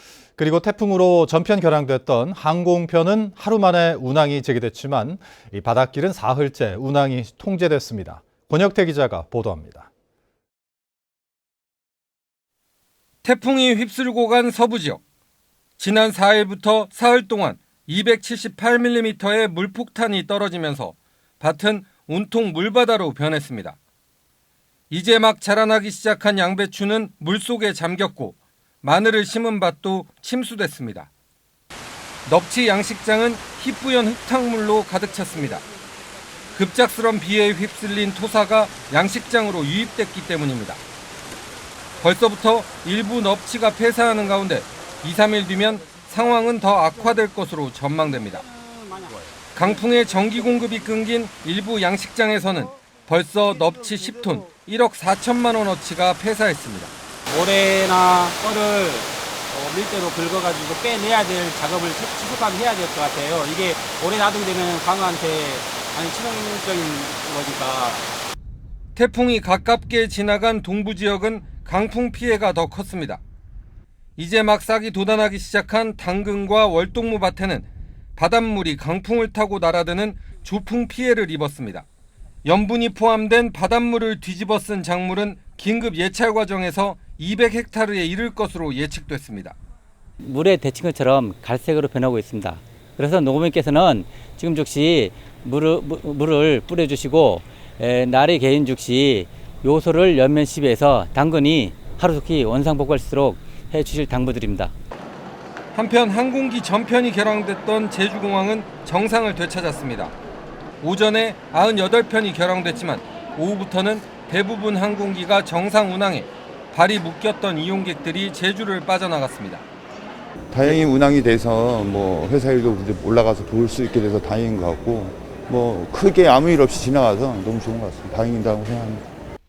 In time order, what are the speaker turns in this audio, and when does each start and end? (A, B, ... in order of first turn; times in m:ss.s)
0:00.4-0:09.9 A
0:13.2-0:15.0 B
0:15.8-0:23.8 B
0:24.9-0:31.1 B
0:32.3-0:35.6 B
0:36.6-0:40.8 B
0:42.0-0:48.4 B
0:48.4-0:49.3 C
0:49.6-0:56.9 B
0:57.3-1:08.1 C
1:09.0-1:13.2 B
1:14.2-1:17.7 B
1:18.2-1:21.8 B
1:22.4-1:29.6 B
1:30.2-1:44.7 D
1:45.7-1:50.1 B
1:50.8-1:59.6 B
2:00.5-2:09.0 E